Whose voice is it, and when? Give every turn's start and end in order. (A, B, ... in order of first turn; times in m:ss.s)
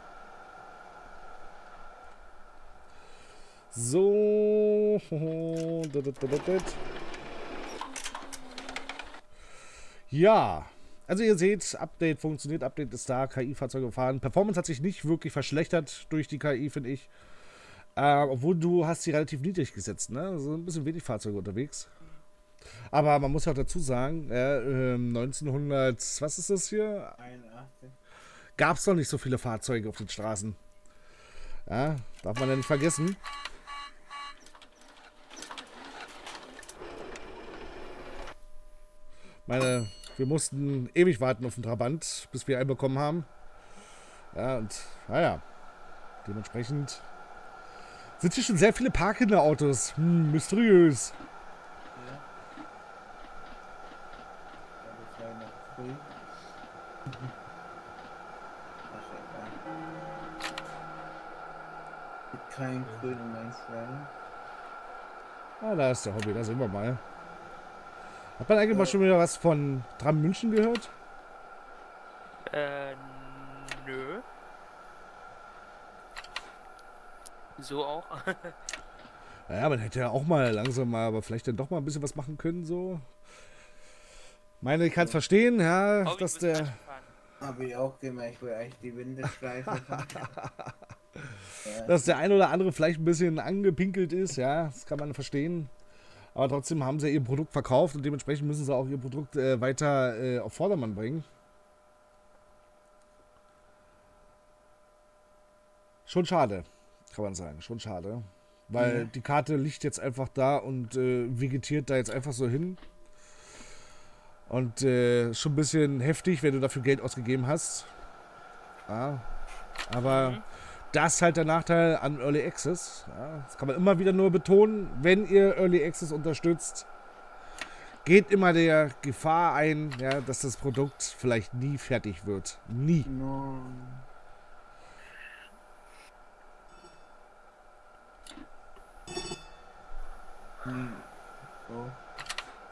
0:03.7-0:06.8 A
0:10.1-0:17.1 A
0:18.0-0:21.9 A
0:22.9-0:27.2 A
0:27.2-0:28.0 B
0:28.6-0:30.6 A
0:31.7-0:33.2 A
0:39.5-0:43.3 A
0:44.3-0:45.4 A
0:46.2-0:47.0 A
0:48.2-0:51.2 A
0:51.9-0:52.2 B
0:54.8-0:56.1 B
0:57.1-0:57.3 B
0:58.9-0:59.6 B
1:02.3-1:04.1 B
1:05.6-1:07.0 A
1:08.4-1:10.9 A
1:08.7-1:09.0 B
1:12.5-1:14.2 C
1:17.6-1:18.6 C
1:19.5-1:23.1 A
1:24.6-1:26.8 A
1:26.0-1:27.1 C
1:27.4-1:30.4 B
1:29.7-1:35.7 A
1:31.6-1:32.2 B
1:36.4-1:41.3 A
1:46.1-1:52.8 A
1:48.8-1:49.1 B
1:54.5-1:57.9 A
1:58.9-1:59.2 A
1:59.9-2:06.9 A
2:00.0-2:00.4 C
2:08.0-2:13.1 A
2:13.0-2:14.0 B
2:20.6-2:21.1 B
2:21.7-2:22.0 B